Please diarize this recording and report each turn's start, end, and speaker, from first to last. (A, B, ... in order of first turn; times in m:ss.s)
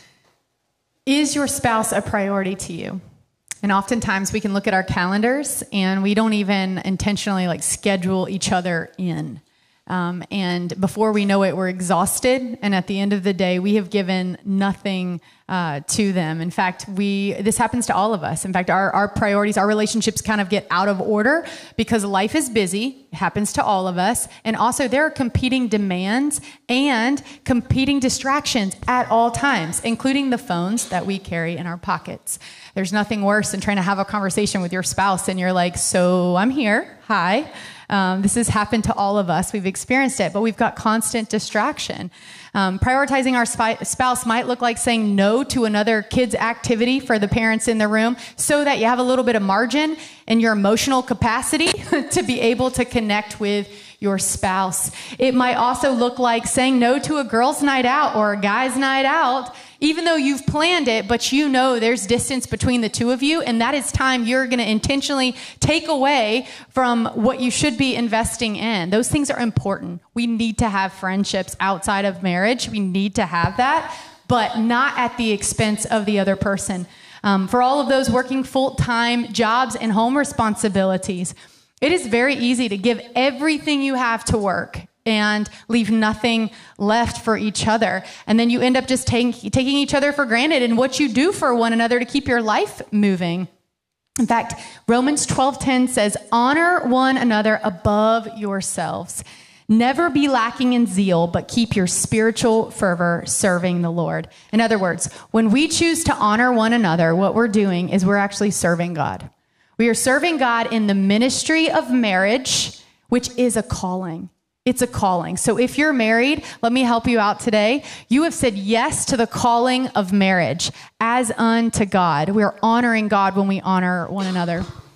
0:01.1-0:03.0 A
0:03.6-1:33.5 A
1:34.2-2:04.7 A